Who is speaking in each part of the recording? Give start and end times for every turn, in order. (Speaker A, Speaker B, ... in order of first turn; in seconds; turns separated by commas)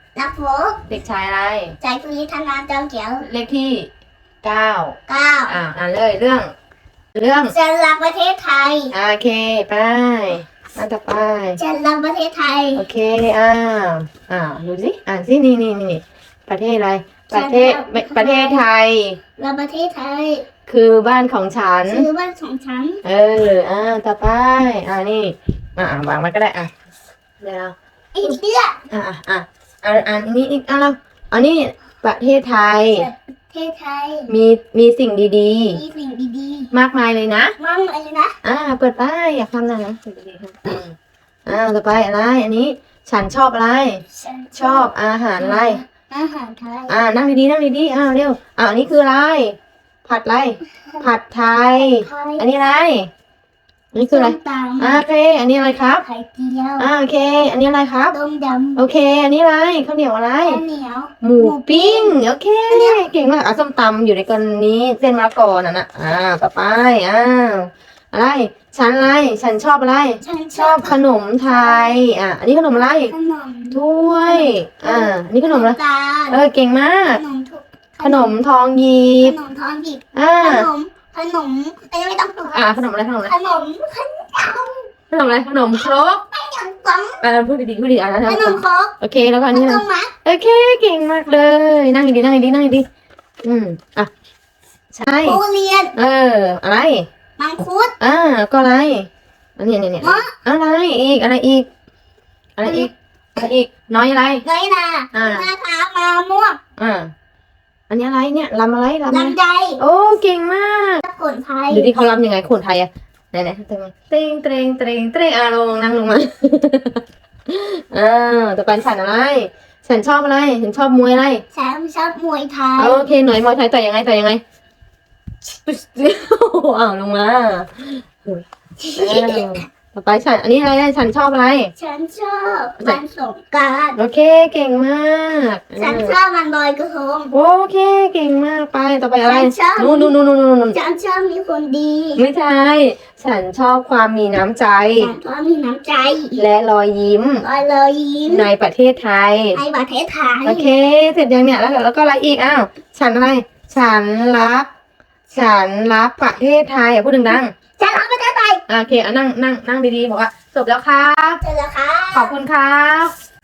Speaker A: 0.1-0.9, Speaker B: 0.9-1.8, Speaker A: 1.8-3.3, Speaker B: 3.2-3.9, Speaker B: 4.4-5.0, Speaker A: 5.1-5.6, Speaker B: 5.5-6.5, Speaker B: 7.1-7.5, Speaker A: 7.5-8.9, Speaker B: 8.9-11.6, Speaker A: 11.6-12.8, Speaker B: 12.8-19.2, Speaker A: 17.3-18.6, Speaker A: 19.4-20.4, Speaker B: 20.7-22.1, Speaker A: 21.9-23.0, Speaker B: 23.0-26.7, Speaker B: 27.4-28.4, Speaker A: 28.1-28.8, Speaker B: 28.9-33.1, Speaker A: 32.9-34.3, Speaker B: 34.3-35.8, Speaker A: 35.7-36.7, Speaker B: 36.7-37.5, Speaker A: 37.6-38.4, Speaker B: 38.4-44.0, Speaker A: 44.1-47.0, Speaker B: 44.5-45.8, Speaker B: 46.9-53.1, Speaker A: 51.8-52.4, Speaker B: 53.9-56.0, Speaker A: 54.0-55.0, Speaker A: 55.9-56.9, Speaker B: 56.8-58.1, Speaker A: 58.1-58.9, Speaker B: 58.8-60.6, Speaker A: 60.4-63.0, Speaker B: 61.2-73.1, Speaker A: 70.2-72.0, Speaker A: 73.1-76.4, Speaker B: 73.7-75.8, Speaker B: 76.3-77.2, Speaker A: 77.1-78.3, Speaker B: 78.0-79.4, Speaker A: 79.2-82.7, Speaker B: 80.1-80.7, Speaker B: 82.5-83.3, Speaker A: 83.2-84.9, Speaker B: 85.1-86.2, Speaker A: 85.8-87.2, Speaker B: 87.2-92.8, Speaker A: 88.3-89.0, Speaker A: 89.5-90.1, Speaker B: 93.4-94.1, Speaker B: 94.9-95.4, Speaker A: 95.2-95.9, Speaker B: 96.0-97.1, Speaker A: 97.4-98.0, Speaker B: 98.0-101.7, Speaker A: 100.0-100.3, Speaker B: 102.6-104.4, Speaker A: 104.4-106.6, Speaker B: 105.1-105.5, Speaker B: 106.8-107.1, Speaker B: 107.9-111.0, Speaker A: 109.1-109.8, Speaker A: 111.0-111.9, Speaker B: 111.7-121.4, Speaker A: 121.5-123.0, Speaker B: 122.8-124.4, Speaker B: 125.5-128.4, Speaker A: 128.8-129.6, Speaker B: 129.0-131.7, Speaker A: 131.8-134.0, Speaker B: 134.0-136.1, Speaker A: 135.8-137.3, Speaker B: 137.3-140.8, Speaker A: 139.2-140.1, Speaker A: 140.7-142.2, Speaker B: 142.2-145.1, Speaker A: 145.0-146.4, Speaker B: 146.4-147.4, Speaker A: 147.4-148.5, Speaker B: 148.3-149.6, Speaker A: 149.5-150.7, Speaker B: 150.4-154.7, Speaker B: 155.3-157.5, Speaker A: 157.8-158.6, Speaker B: 158.7-161.4, Speaker A: 161.4-162.4, Speaker B: 162.1-163.1